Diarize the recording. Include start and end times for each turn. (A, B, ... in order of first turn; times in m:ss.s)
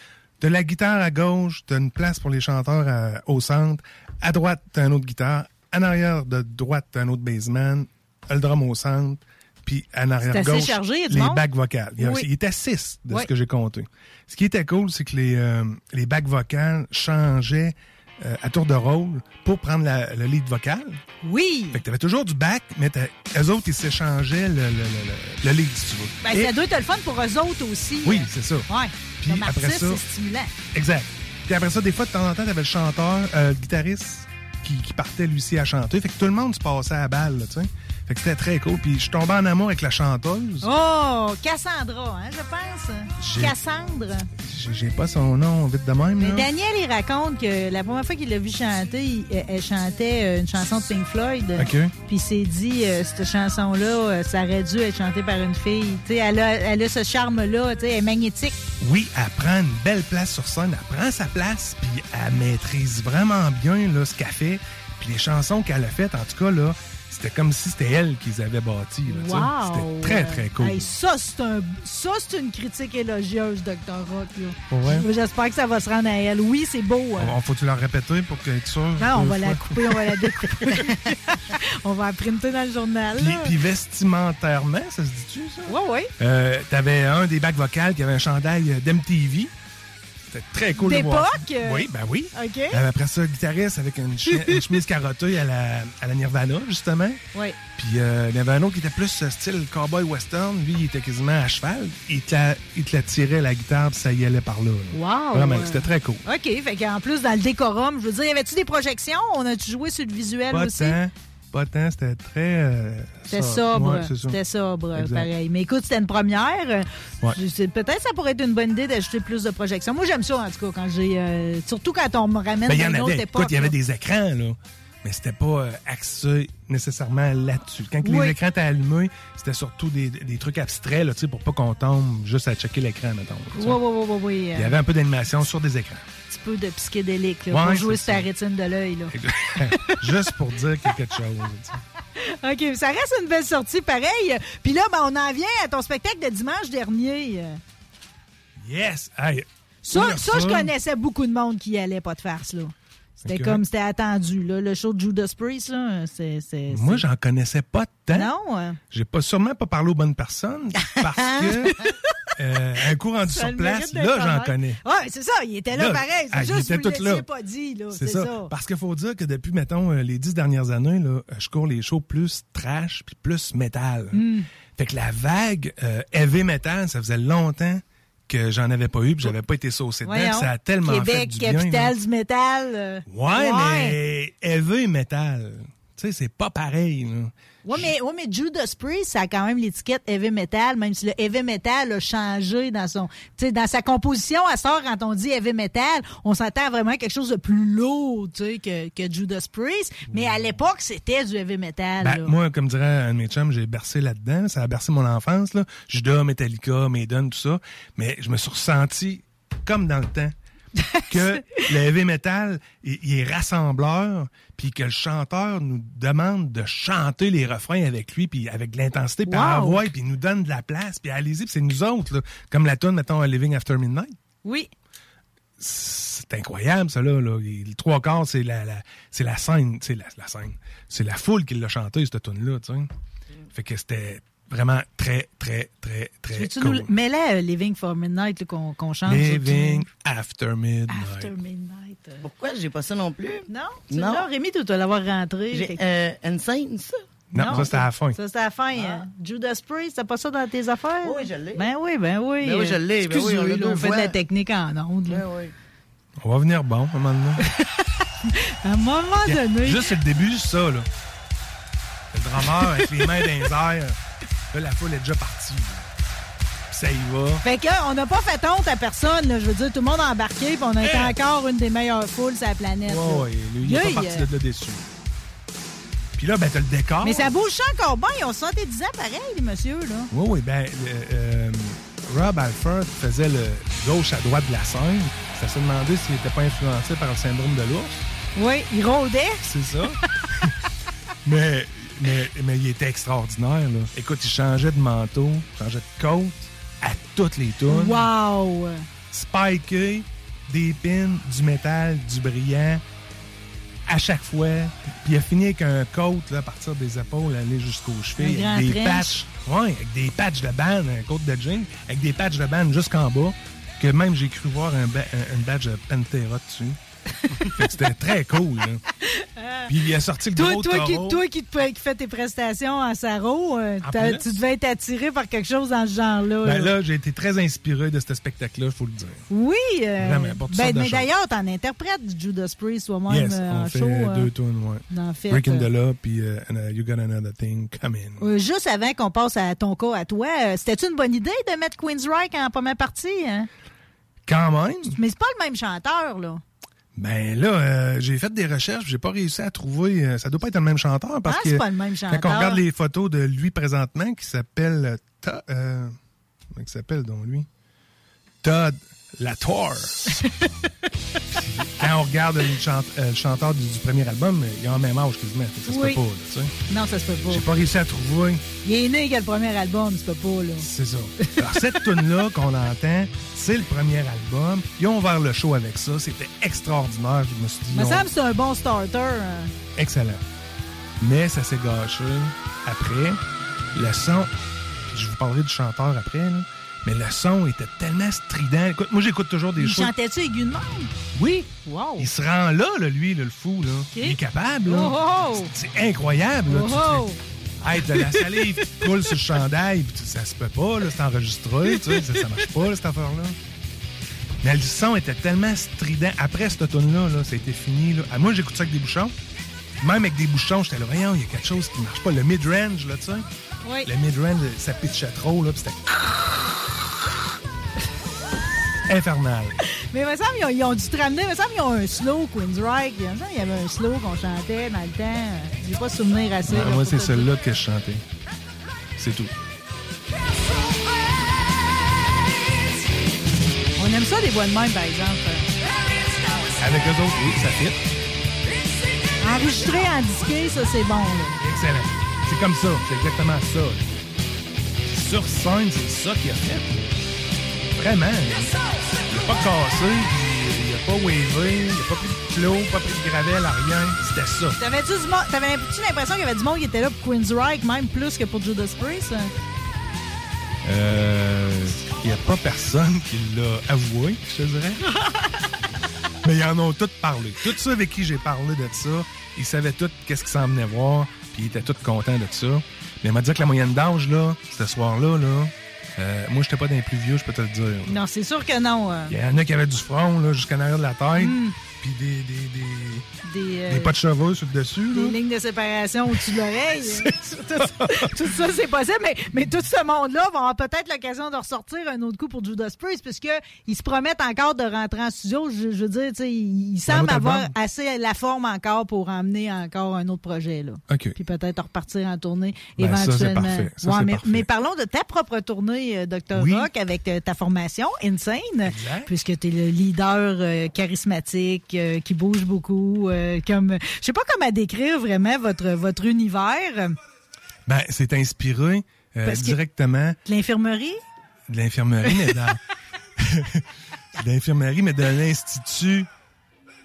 0:00.4-0:21.0 A
0:10.2-0:11.5 B
0:12.0-0:12.3 B
0:21.2-0:21.8 B
0:21.7-0:26.5 A
0:26.2-0:30.5 B
0:28.0-0:28.7 A
0:29.2-0:30.0 A
0:30.7-0:40.7 A
0:40.6-0:44.3 B
0:43.2-0:43.5 A
0:44.4-0:46.5 A
0:46.2-0:58.6 B
0:51.6-0:51.9 A
0:58.8-1:10.9 A
1:09.1-1:17.4 B
1:14.7-1:15.1 A
1:17.2-1:20.9 A
1:19.0-1:23.5 B
1:23.2-1:29.5 A
1:25.7-1:26.1 B
1:30.3-1:37.2 A
1:30.8-1:32.8 B
1:37.8-1:46.2 A
1:44.9-1:51.0 B
1:50.5-1:54.4 A
1:53.3-2:03.7 B
1:54.9-1:55.3 A
2:02.7-2:13.8 A
2:08.0-2:08.4 B
2:13.5-2:14.7 B
2:14.6-2:16.0 A
2:16.3-2:19.1 B
2:17.5-2:18.3 A
2:19.1-2:21.8 A
2:22.4-2:27.6 B
2:28.6-2:30.7 A
2:29.9-2:32.7 B
2:33.2-2:37.0 B
2:33.2-2:33.6 A
2:36.7-2:38.3 A
2:38.1-2:38.8 B
2:38.9-2:41.8 A
2:42.4-2:44.8 A
2:43.2-2:48.5 B
2:45.7-2:47.2 A
2:47.9-2:54.2 A
2:54.1-2:54.5 B
2:54.8-3:01.9 A
3:00.0-3:04.0 B
3:03.1-3:07.9 A
3:07.6-3:22.4 B
3:20.1-3:20.6 A
3:22.0-3:30.3 A
3:31.1-3:44.1 A
3:39.3-3:39.9 B
3:44.4-3:44.7 B
3:45.6-3:52.9 A
3:53.6-3:56.9 A
3:56.3-3:59.9 B
3:59.0-4:01.3 A
4:00.9-4:02.2 B
4:02.2-4:04.3 C
4:03.4-4:05.8 B
4:05.5-4:07.8 C
4:07.3-4:08.2 A
4:07.3-4:15.2 B
4:08.8-4:09.1 C
4:11.0-4:11.7 C
4:12.4-4:14.2 C
4:15.1-4:15.5 C
4:16.2-4:17.4 A
4:18.2-4:19.8 B
4:19.3-4:20.9 A
4:22.1-4:24.0 A
4:24.5-4:25.8 A
4:26.7-4:27.4 A
4:27.4-4:34.3 B
4:30.8-4:31.2 A
4:32.9-4:34.8 A
4:36.2-4:37.3 A
4:37.0-4:40.1 B
4:40.1-4:48.0 A
4:48.4-4:49.5 B
4:49.5-4:50.5 A
4:51.2-4:58.1 A
4:57.7-4:58.8 B
4:59.1-5:02.8 A
5:03.9-5:16.8 A
5:08.2-5:09.2 B
5:17.5-5:18.8 A
5:19.2-5:19.7 B
5:19.7-5:21.2 A
5:20.3-5:26.7 B
5:23.8-5:24.2 A
5:26.4-5:29.2 A
5:29.3-5:34.3 B
5:30.0-5:31.1 A
5:33.1-5:38.2 A
5:34.9-5:35.7 B
5:38.2-5:43.5 B
5:44.3-5:45.0 A
5:44.9-5:46.4 B
5:47.0-5:56.0 A
5:51.3-5:52.6 B
5:56.5-5:57.5 A
5:58.4-6:00.2 A
6:01.4-6:06.5 A
6:05.7-6:06.0 B
6:06.7-6:07.5 B
6:07.3-6:08.4 A
6:08.6-6:10.7 B
6:10.6-6:18.1 A
6:17.7-6:19.5 B
6:19.8-6:20.2 A
6:21.0-6:23.2 A
6:23.8-6:24.3 A
6:24.9-6:29.9 A
6:29.6-6:30.9 B
6:31.2-6:37.0 A
6:31.6-6:32.1 B
6:33.9-6:35.5 B
6:36.5-6:37.2 B
6:37.6-6:43.4 A
6:38.0-6:38.4 B
6:44.4-6:49.1 A
6:49.8-6:53.2 A
6:53.6-6:53.9 B
6:53.8-6:55.8 A
6:58.9-6:59.6 A
6:59.9-7:07.3 B
7:06.5-7:08.0 A
7:09.0-7:09.3 A
7:13.8-7:15.5 B
7:16.6-7:17.8 A
7:19.2-7:21.4 B
7:21.4-7:23.8 A
7:24.9-7:26.9 A
7:27.8-7:28.5 A
7:29.1-7:34.6 A
7:34.6-7:39.3 B
7:40.7-7:44.8 A
7:46.2-7:58.0 A
7:57.9-7:59.1 B
7:59.1-8:03.0 A
8:01.2-8:01.6 B
8:03.2-8:03.9 B
8:03.7-8:05.2 A
8:04.9-8:37.0 B
8:06.9-8:08.1 A
8:16.9-8:17.5 A
8:20.9-8:21.1 A
8:22.8-8:24.5 A
8:26.3-8:26.7 A
8:28.6-8:29.1 A
8:37.7-8:40.2 A
8:39.2-8:39.6 B
8:40.2-8:41.0 B
8:41.5-8:42.6 A
8:42.1-8:42.4 B
8:43.2-8:43.6 A
8:44.2-8:46.1 A